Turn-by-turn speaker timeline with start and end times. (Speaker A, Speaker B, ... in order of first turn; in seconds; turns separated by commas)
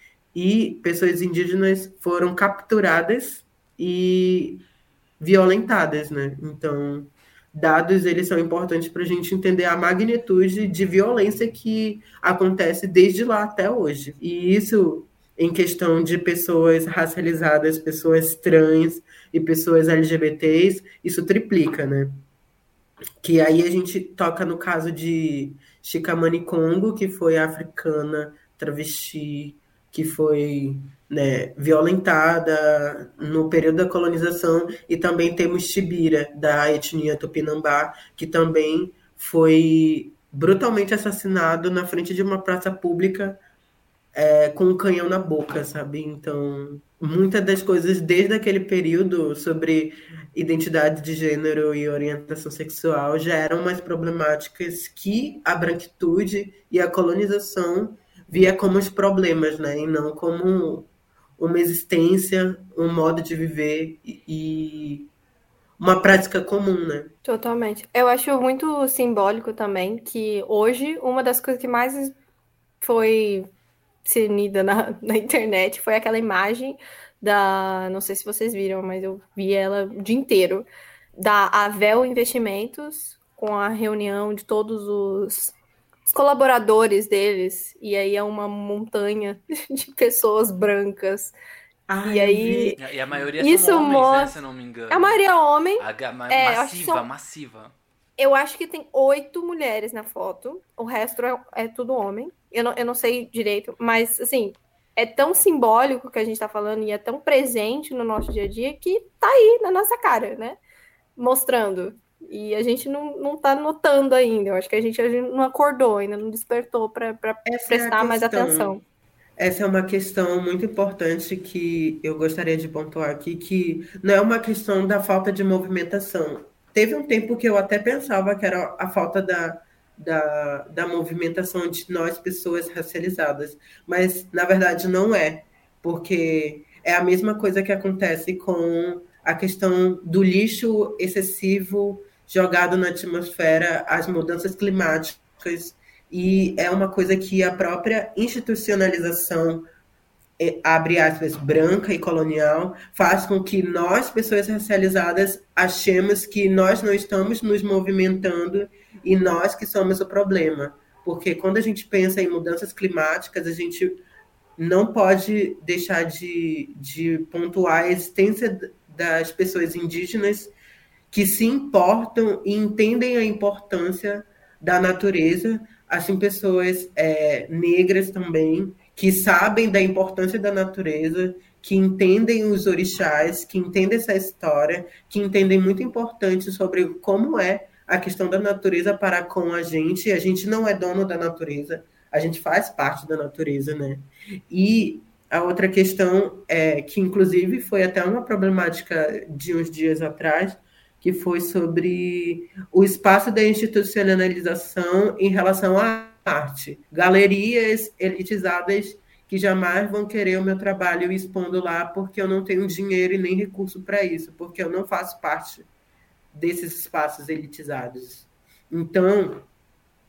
Speaker A: 0.3-4.6, Speaker A: 5.2-22.2, Speaker A: 23.2-43.4, Speaker A: 44.1-65.1, Speaker A: 65.8-67.1, Speaker B: 67.2-72.2, Speaker B: 72.8-73.5, Speaker B: 74.0-80.7, Speaker B: 81.2-85.5, Speaker B: 86.1-91.3, Speaker A: 91.9-92.8, Speaker B: 92.0-92.8, Speaker C: 92.8-95.2, Speaker B: 93.4-94.4, Speaker B: 94.9-97.1, Speaker C: 95.8-97.7, Speaker B: 98.2-110.6, Speaker B: 111.2-118.8, Speaker A: 117.5-118.7, Speaker A: 119.4-149.7, Speaker A: 150.4-164.0, Speaker A: 164.6-170.5, Speaker A: 171.1-215.7, Speaker A: 216.3-219.5